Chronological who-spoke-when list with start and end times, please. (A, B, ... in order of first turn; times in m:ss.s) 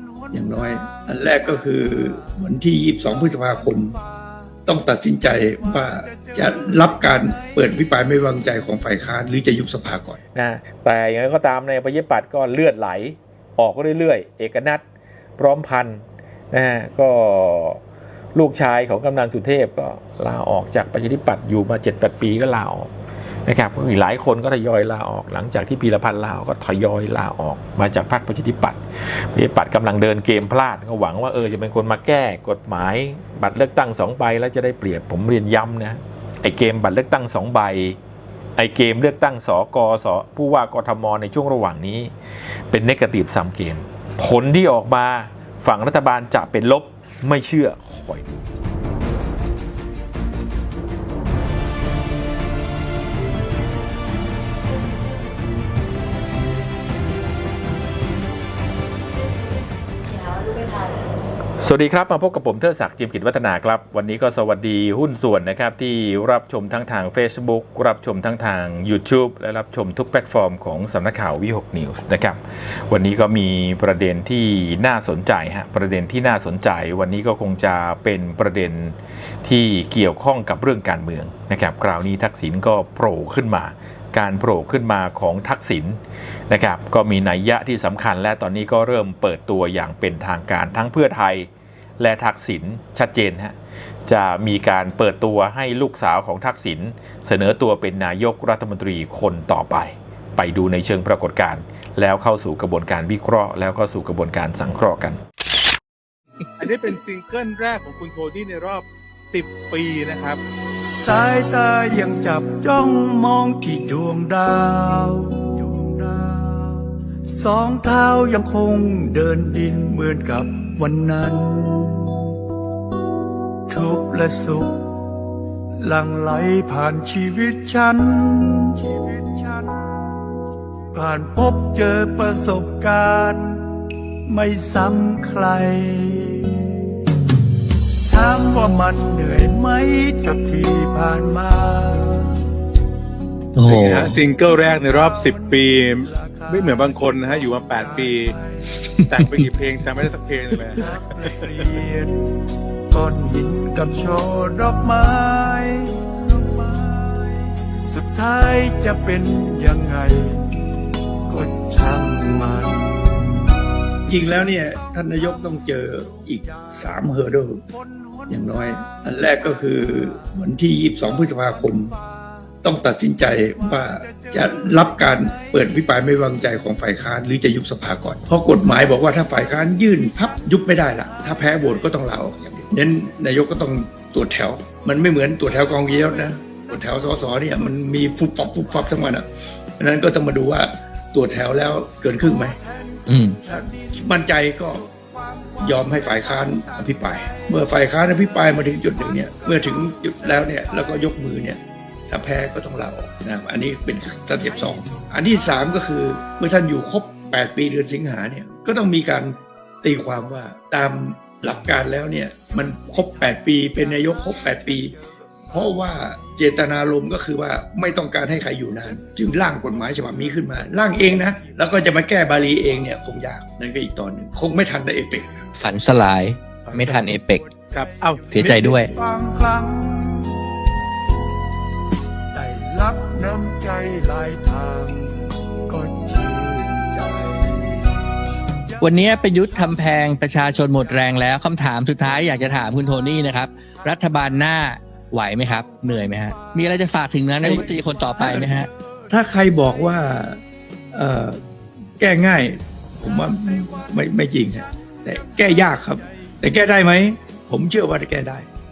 0:00.3-0:04.0 A
0:04.7-0:10.2 A
0:06.1-0:06.7 B
0:10.4-0:14.8 C
0:15.4-0:17.8 C
0:18.4-0:22.9 C
0:23.5-0:28.8 C
0:29.3-0:38.0 C
0:38.6-0:42.1 C
0:42.7-0:48.4 C
1:01.6-1:26.0 C
1:26.5-1:33.6 C
1:34.1-1:45.2 C
1:46.6-1:50.4 D
1:51.0-2:02.3 B
2:03.7-2:04.9 B
2:05.8-2:09.9 B
2:10.9-2:13.7 B
2:14.3-2:16.8 B
2:18.1-2:22.4 B
2:23.6-2:24.1 E
2:23.6-2:28.3 D
2:24.2-2:28.6 B
2:28.9-2:29.3 E
2:29.1-2:31.5 D
2:30.8-2:32.1 B
2:32.9-2:40.6 B
2:41.3-2:43.3 B
2:44.1-2:47.6 A
2:48.3-2:51.9 A
2:52.6-3:12.6 A
2:54.0-2:54.3 B
3:12.6-3:13.0 B
3:13.1-3:13.4 E
3:13.4-3:14.9 A
3:14.9-3:16.0 B
3:15.6-3:34.9 A
3:35.5-3:45.4 A
3:45.6-3:47.5 E
3:46.7-3:47.1 D
3:47.7-3:48.4 D
3:48.3-3:48.9 E
3:48.4-3:50.4 B
3:52.3-3:57.9 B
3:58.8-4:08.7 E
4:07.4-4:08.5 A
4:09.1-4:10.4 A
4:10.9-4:11.4 A
4:12.0-4:18.5 A